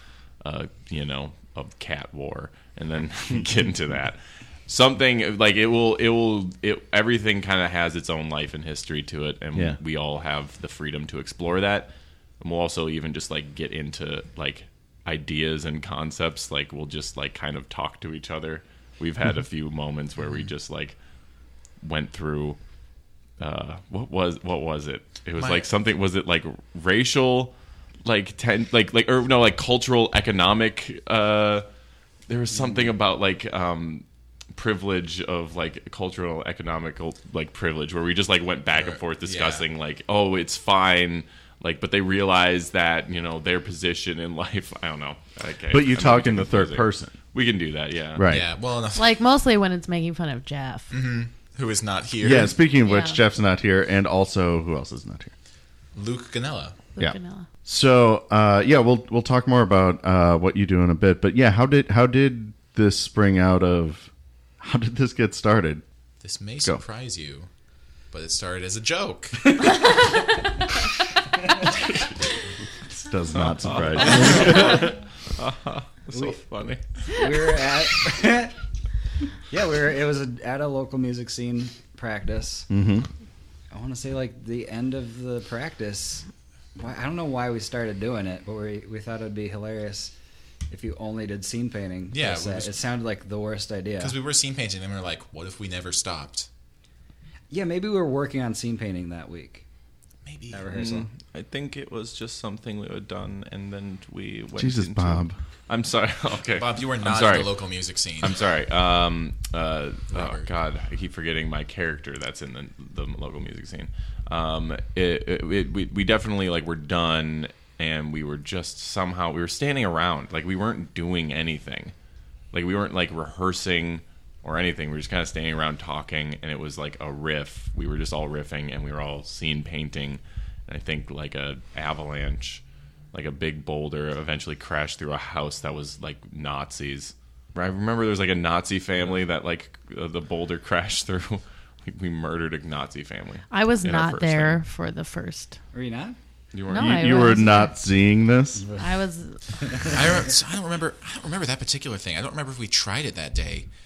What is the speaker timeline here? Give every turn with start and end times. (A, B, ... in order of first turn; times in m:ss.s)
0:00.4-0:21.0 A
0:21.8-0:22.6 A
0:23.4-0:31.7 A
0:25.4-0:25.7 B
0:32.3-0:48.3 A
0:38.7-0:39.7 B
0:45.7-0:47.2 C
0:48.2-0:48.5 C
0:48.3-0:49.1 B
0:49.0-0:50.9 D
0:50.9-0:52.6 B
0:52.2-0:55.3 C
0:52.8-0:53.2 D
0:56.0-0:56.8 B
0:57.0-0:57.5 D
0:57.0-1:05.8 C
1:06.2-1:07.5 B
1:08.1-1:09.4 B
1:12.9-1:14.9 C
1:13.4-1:17.0 A
1:14.1-1:14.7 E
1:14.4-1:14.8 D
1:16.1-1:16.4 E
1:17.1-1:18.5 E
1:19.5-1:22.7 E
1:22.7-1:23.1 C
1:23.7-1:26.2 E
1:26.8-1:30.1 E
1:30.7-1:34.2 E
1:32.1-1:32.8 B
1:34.0-1:36.5 B
1:37.5-1:39.6 E
1:40.2-1:40.8 B
1:40.5-1:41.1 E
1:40.7-1:47.5 A
1:44.6-1:45.4 C
1:46.6-1:48.4 B
1:48.2-2:01.9 A
1:50.1-1:50.5 B
2:02.5-2:24.6 A
2:23.5-2:25.6 D
2:25.7-2:26.2 E
2:26.5-2:27.3 A
2:26.7-2:27.8 D
2:26.7-2:28.7 C
2:28.6-2:28.9 E
2:28.8-2:29.4 D
2:29.7-2:30.2 E
2:29.8-2:33.7 B